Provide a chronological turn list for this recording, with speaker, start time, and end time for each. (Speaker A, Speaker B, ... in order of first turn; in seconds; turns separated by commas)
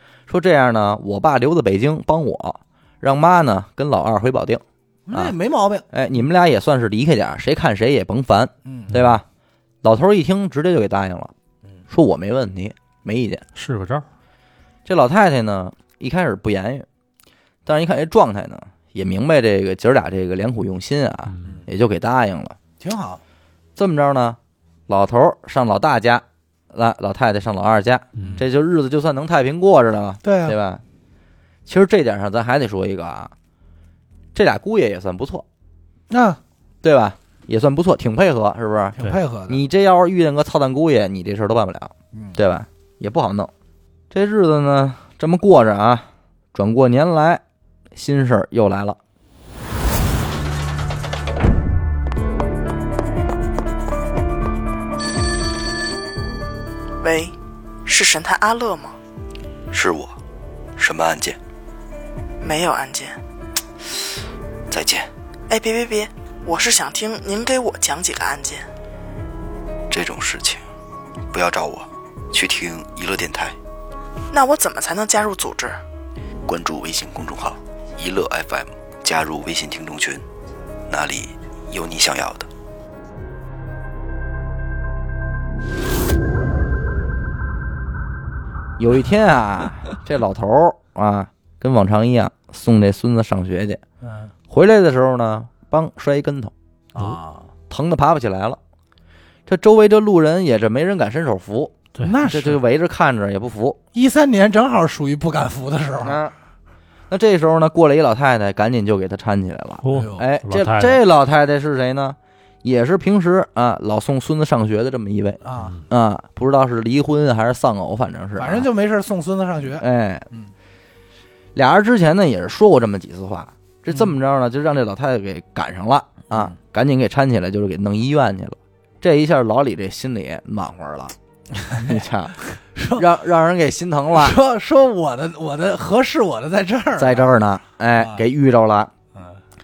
Speaker A: 0.3-5.3, Speaker B: 5.0-5.9, Speaker A: 5.9-9.2, Speaker B: 8.6-8.9, Speaker A: 9.8-11.3, Speaker A: 11.9-13.4, Speaker C: 13.6-14.0, Speaker A: 14.8-16.9, Speaker A: 17.6-22.6, Speaker C: 21.3-21.6, Speaker B: 22.8-23.2, Speaker A: 23.8-30.8, Speaker C: 28.1-28.4, Speaker B: 28.2-28.4, Speaker B: 30.2-30.6, Speaker A: 31.6-33.3, Speaker A: 34.3-35.4, Speaker B: 36.1-36.4, Speaker A: 36.8-43.5, Speaker B: 39.0-39.6, Speaker B: 42.1-42.4, Speaker A: 44.1-47.4, Speaker A: 47.9-49.0, Speaker D: 57.0-57.3, Speaker D: 57.9-59.0, Speaker E: 59.7-60.2, Speaker E: 60.8-61.4, Speaker D: 62.4-63.2, Speaker E: 64.7-65.1, Speaker D: 65.5-68.7, Speaker E: 69.9-70.6, Speaker E: 71.3-73.6, Speaker D: 74.3-75.8, Speaker E: 76.4-80.2, Speaker E: 80.9-82.5, Speaker A: 88.8-93.8, Speaker B: 94.0-94.3, Speaker A: 94.5-96.5, Speaker B: 96.9-97.5, Speaker A: 97.7-98.6, Speaker A: 99.5-103.8, Speaker C: 101.9-102.2, Speaker B: 102.0-102.6, Speaker B: 103.9-106.2, Speaker A: 106.0-106.3, Speaker A: 107.1-118.7, Speaker C: 109.8-111.0, Speaker B: 109.9-110.2, Speaker B: 115.4-115.8, Speaker B: 118.3-120.5, Speaker A: 119.8-120.3, Speaker A: 121.5-134.4, Speaker B: 131.6-133.0, Speaker B: 134.1-137.4, Speaker A: 137.0-138.9, Speaker B: 138.0-138.2